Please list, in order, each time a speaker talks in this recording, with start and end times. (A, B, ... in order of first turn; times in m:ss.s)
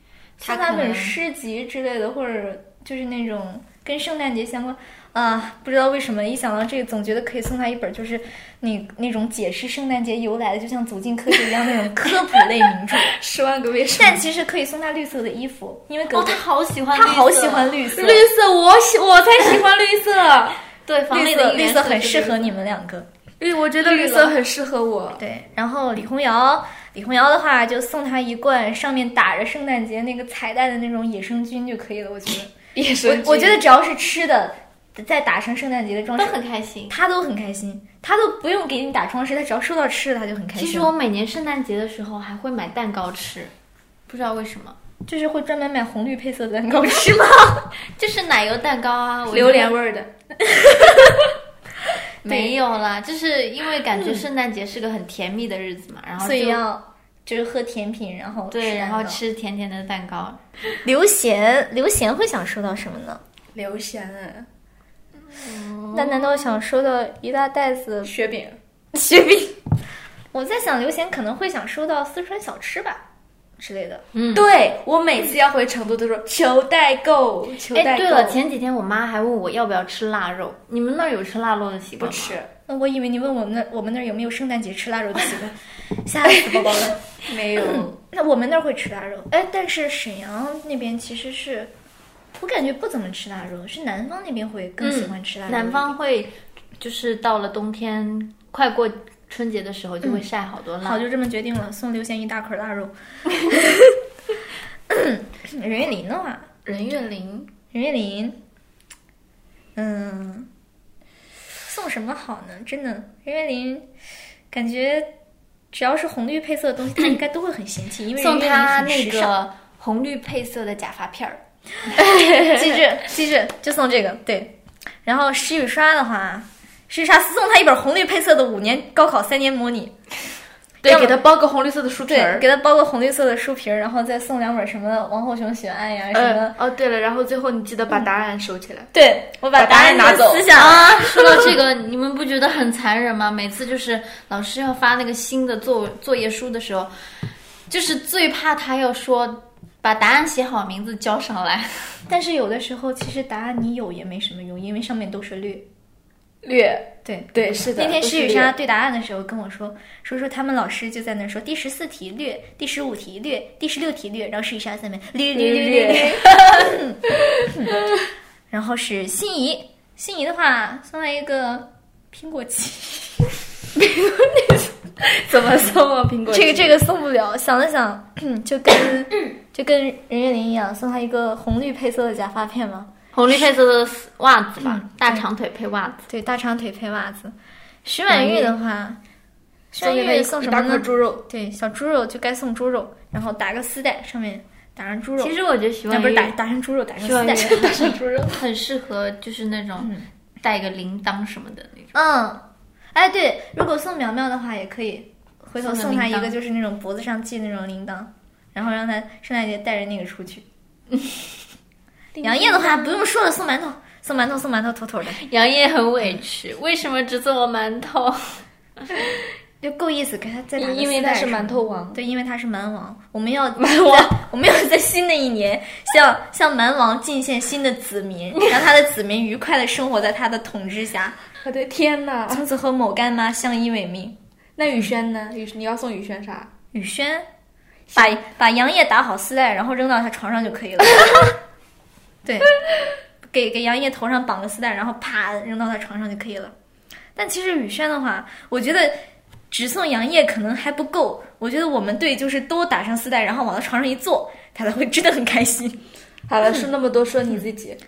0:00.4-0:01.2 A
0:00.4-0:13.1 B
0:13.1-0:14.2 C
0:14.0-0:16.4 B
0:16.1-0:17.8 A
0:16.9-0:18.3 B
0:17.9-0:20.6 C
0:20.8-0:22.5 A
0:21.1-0:23.1 B
0:23.4-0:25.2 C
0:23.8-0:24.3 A
0:25.2-0:32.5 B
0:32.7-0:33.6 C
0:33.0-0:40.9 B
0:36.2-0:37.0 A
0:40.6-0:43.5 A
0:44.1-0:44.8 A
0:45.0-0:47.7 B
0:48.0-0:49.8 A
0:49.3-0:50.1 C
0:50.4-0:51.3 B
0:52.2-0:56.6 A
0:52.2-0:52.5 B
0:56.2-0:59.2 B
0:58.5-1:00.4 A
1:00.8-1:03.2 B
1:03.5-1:04.5 C
1:05.3-1:06.3 A
1:05.9-1:08.1 B
1:08.0-1:08.6 C
1:08.9-1:09.6 B
1:10.3-1:13.0 B
1:13.6-1:14.0 B
1:14.1-1:14.4 A
1:14.3-1:18.4 C
1:17.7-1:22.4 A
1:22.0-1:22.4 C
1:22.7-1:27.0 B
1:26.3-1:27.9 C
1:27.6-1:31.7 B
1:32.3-1:35.9 B
1:34.8-1:41.0 A
1:40.8-1:42.9 B
1:43.4-1:44.0 B
1:44.9-1:46.5 B
1:46.6-1:47.5 C
1:47.7-1:48.4 B
1:49.8-1:50.5 B
1:51.6-1:53.9 B
1:54.5-1:55.1 B
1:55.7-1:59.3 B
1:58.2-2:01.4 A
2:02.0-2:02.7 C
2:02.5-2:09.9 B
2:10.8-2:12.5 C
2:10.8-2:11.2 B
2:12.0-2:16.6 B
2:16.1-2:18.9 C
2:18.9-2:21.6 B
2:19.6-2:20.5 C
2:20.5-2:26.9 A
2:27.7-2:32.0 A
2:32.1-2:35.7 B
2:36.4-2:38.5 C
2:37.0-2:47.7 B
2:45.3-2:46.3 C
2:48.5-2:53.3 B
2:53.8-2:56.8 C
2:56.3-3:02.9 B
3:03.1-3:06.0 A
3:04.6-3:05.2 B
3:06.1-3:09.0 B
3:08.1-3:08.5 A
3:09.7-3:15.3 B
3:09.8-3:11.2 C
3:15.2-3:16.3 A
3:15.9-3:17.7 B
3:17.0-3:21.9 A
3:17.3-3:18.4 C
3:21.9-3:22.4 B
3:22.9-3:30.4 B
3:25.6-3:26.4 A
3:32.2-3:32.8 C
3:32.2-3:35.2 B
3:35.1-3:38.4 A
3:39.6-3:51.2 B
3:40.6-3:42.0 C
3:43.6-3:44.1 C
3:51.4-3:52.4 C
3:52.3-3:54.2 B
3:54.6-3:56.5 C
3:56.7-3:57.3 B
3:57.9-4:01.3 B
4:02.2-4:02.5 B
4:03.2-4:06.5 B
4:07.2-4:09.0 B
4:09.5-4:15.8 B
4:16.3-4:17.8 C